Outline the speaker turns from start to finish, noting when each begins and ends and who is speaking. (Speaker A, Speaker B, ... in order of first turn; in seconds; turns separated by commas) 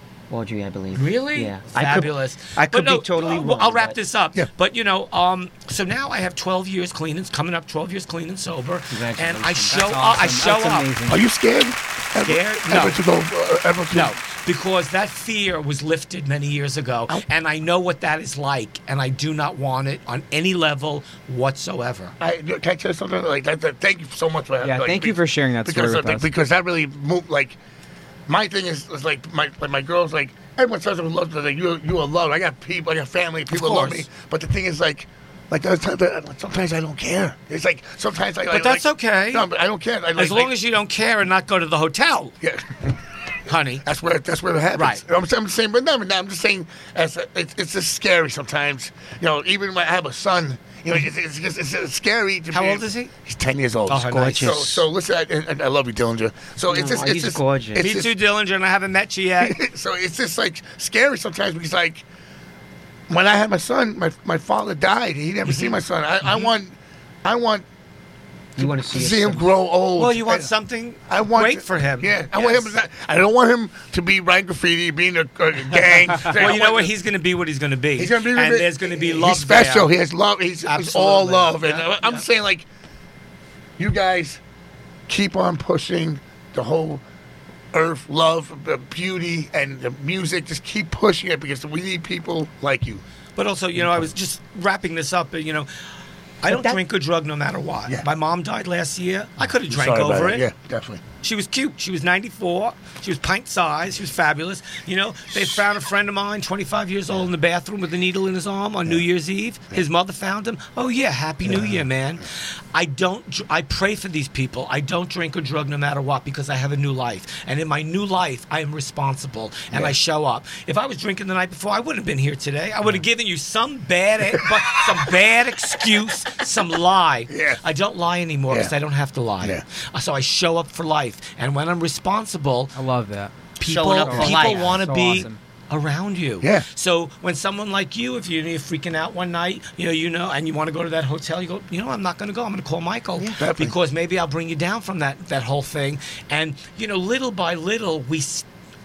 Speaker A: 0.3-4.0, Speaker B: 0.9-10.9, Speaker A: 8.9-9.8, Speaker C: 9.7-11.2, Speaker D: 11.1-14.1, Speaker B: 12.2-13.0, Speaker B: 13.9-22.1, Speaker D: 22.2-27.6, Speaker C: 24.6-26.3, Speaker D: 28.3-40.5, Speaker B: 33.5-34.1, Speaker B: 38.5-39.5, Speaker B: 40.1-42.4, Speaker D: 42.4-43.0, Speaker B: 43.5-43.9, Speaker D: 43.9-58.1, Speaker B: 44.8-45.0, Speaker B: 52.5-53.1, Speaker B: 53.9-54.6, Speaker A: 54.1-54.9, Speaker A: 56.7-57.9, Speaker B: 57.8-59.6, Speaker D: 59.4-62.0, Speaker D: 63.1-67.7, Speaker B: 65.5-66.5, Speaker A: 68.6-69.5, Speaker D: 68.6-70.5, Speaker B: 70.0-72.7, Speaker D: 71.1-76.9, Speaker B: 76.2-79.9, Speaker D: 78.0-82.7, Speaker B: 80.6-82.2, Speaker D: 83.8-84.4, Speaker D: 85.1-87.0, Speaker D: 87.7-93.0, Speaker B: 93.4-95.7, Speaker D: 93.8-94.1, Speaker B: 96.4-100.5, Speaker A: 96.5-96.8, Speaker D: 99.7-101.0, Speaker B: 101.2-132.7, Speaker D: 111.5-111.8, Speaker D: 127.3-127.6, Speaker C: 132.7-133.3, Speaker B: 133.6-148.4, Speaker A: 133.6-135.0, Speaker C: 134.0-135.4, Speaker D: 143.4-143.7